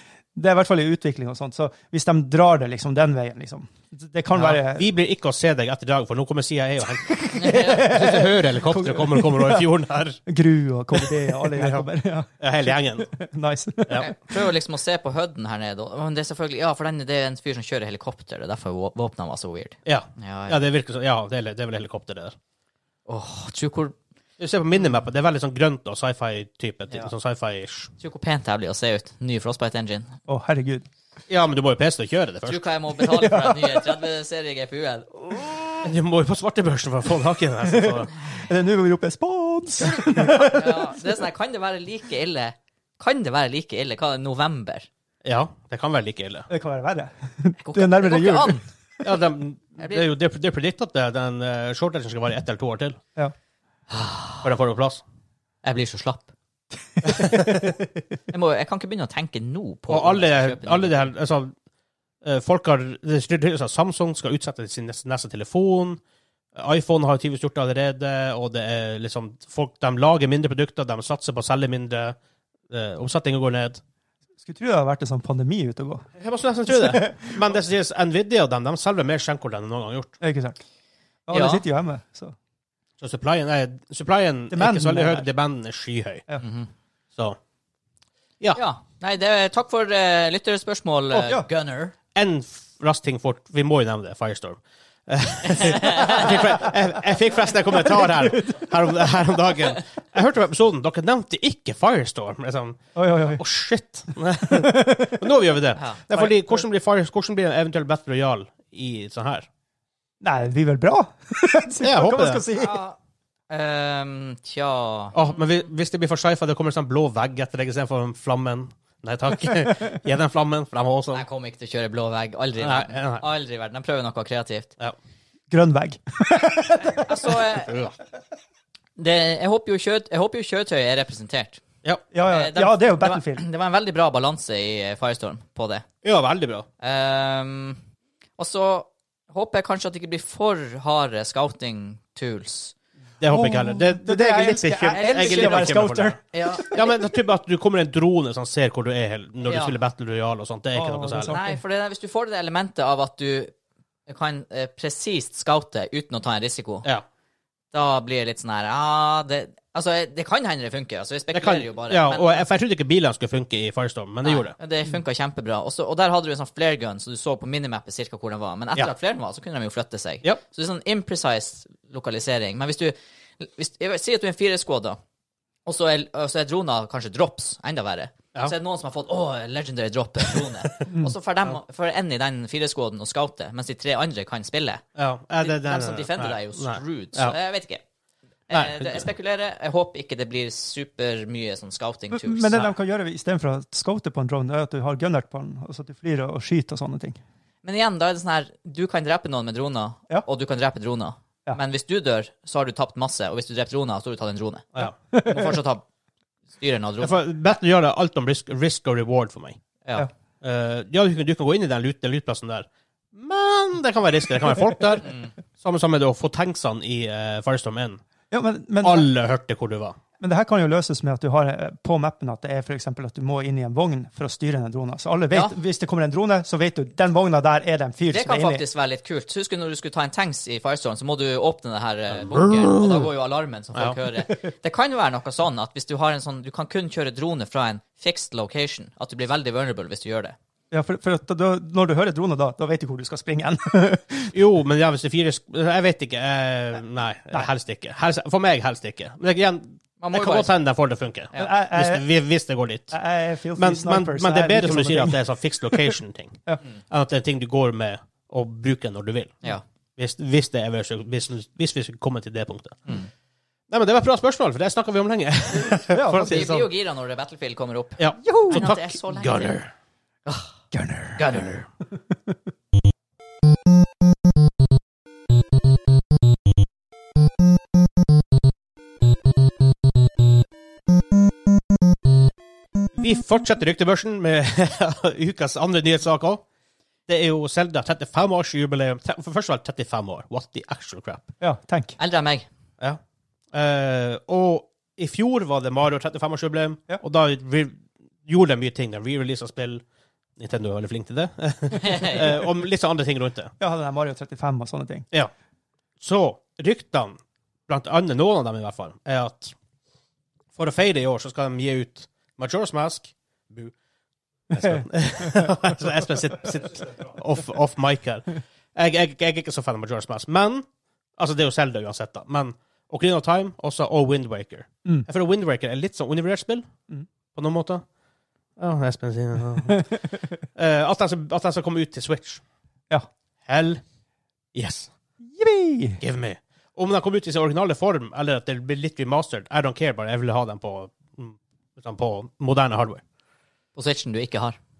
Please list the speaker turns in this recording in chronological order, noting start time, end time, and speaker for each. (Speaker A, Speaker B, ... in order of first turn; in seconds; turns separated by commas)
Speaker A: 0.3-4.9, Speaker B: 4.3-10.2, Speaker A: 7.2-9.7, Speaker C: 7.3-8.0, Speaker A: 10.2-14.1, Speaker B: 11.0-11.9, Speaker B: 12.4-13.1, Speaker C: 13.9-20.6, Speaker B: 19.9-22.4, Speaker C: 23.1-23.9, Speaker B: 24.4-27.9, Speaker C: 28.0-30.1, Speaker A: 30.3-30.9, Speaker B: 31.3-32.6, Speaker C: 32.5-35.4, Speaker A: 33.1-33.8, Speaker B: 35.8-38.1, Speaker A: 37.7-41.0, Speaker C: 39.8-44.9, Speaker B: 45.2-46.5, Speaker A: 46.5-48.6, Speaker C: 47.6-48.6, Speaker B: 49.0-53.0, Speaker C: 49.8-50.1, Speaker C: 53.9-54.4, Speaker B: 54.4-55.0, Speaker C: 55.6-56.3, Speaker A: 57.0-58.0, Speaker C: 58.3-61.1, Speaker B: 59.9-61.5, Speaker B: 62.2-66.0, Speaker B: 66.5-72.2, Speaker B: 72.7-73.8, Speaker A: 74.4-76.0, Speaker B: 76.2-80.1, Speaker A: 76.7-77.4, Speaker A: 80.2-80.6, Speaker A: 81.3-82.3, Speaker C: 81.3-81.6, Speaker B: 83.0-86.2, Speaker A: 84.5-85.3, Speaker C: 86.4-86.7, Speaker C: 88.5-91.9, Speaker A: 91.1-91.5, Speaker B: 92.1-109.5, Speaker C: 95.5-96.5, Speaker A: 97.9-98.6, Speaker A: 103.0-103.4, Speaker A: 104.5-105.2, Speaker C: 105.8-106.0, Speaker A: 106.1-106.6, Speaker A: 110.2-112.8, Speaker B: 111.8-112.4, Speaker C: 112.5-113.0, Speaker C: 113.5-115.2, Speaker B: 115.1-121.2, Speaker C: 121.1-124.7, Speaker B: 122.6-123.2, Speaker A: 125.5-127.3, Speaker C: 126.9-127.8, Speaker B: 127.5-127.9, Speaker C: 129.0-131.6, Speaker A: 132.1-133.4, Speaker C: 132.3-135.8, Speaker B: 136.0-136.7, Speaker C: 136.8-137.8, Speaker C: 138.4-142.7, Speaker B: 143.2-146.2, Speaker A: 143.3-146.8, Speaker C: 144.9-145.8, Speaker C: 146.3-146.9, Speaker B: 146.7-151.4, Speaker C: 149.4-149.7, Speaker A: 150.7-151.6, Speaker C: 151.3-153.5, Speaker C: 154.1-156.9, Speaker C: 157.7-162.4, Speaker B: 161.3-164.5, Speaker C: 164.2-175.0, Speaker C: 175.7-184.8, Speaker B: 184.9-187.3, Speaker C: 185.4-187.8, Speaker C: 188.5-192.6, Speaker B: 188.5-189.1, Speaker A: 192.1-197.2, Speaker C: 197.6-205.8, Speaker A: 205.1-205.6, Speaker C: 206.6-207.2, Speaker B: 207.0-209.6, Speaker B: 210.4-218.0, Speaker A: 218.3-219.1, Speaker B: 218.8-220.0, Speaker A: 220.2-228.6, Speaker C: 228.1-240.3, Speaker B: 232.3-233.0, Speaker A: 240.7-244.3, Speaker B: 244.3-253.0, Speaker C: 250.0-250.5, Speaker A: 251.4-252.0, Speaker A: 252.9-255.2, Speaker B: 253.6-259.4, Speaker B: 260.0-262.8, Speaker B: 263.7-266.7, Speaker A: 265.9-266.4, Speaker C: 266.1-269.6, Speaker B: 268.0-269.7, Speaker A: 268.2-268.6, Speaker C: 270.2-270.5, Speaker A: 270.7-271.2, Speaker C: 271.2-271.6, Speaker B: 283.0-286.4, Speaker B: 287.1-291.3, Speaker A: 291.4-292.0, Speaker C: 292.0-292.5, Speaker B: 293.5-299.8, Speaker B: 300.4-303.5, Speaker C: 301.8-302.3, Speaker A: 303.6-305.1, Speaker B: 306.0-309.5, Speaker B: 310.5-313.7, Speaker B: 314.5-320.6, Speaker A: 314.5-315.5, Speaker B: 321.2-326.7, Speaker B: 327.3-327.8, Speaker B: 328.6-330.0, Speaker B: 330.5-332.4, Speaker B: 333.4-333.8, Speaker B: 334.5-334.9, Speaker A: 335.3-336.0, Speaker B: 336.0-343.0, Speaker C: 343.7-344.6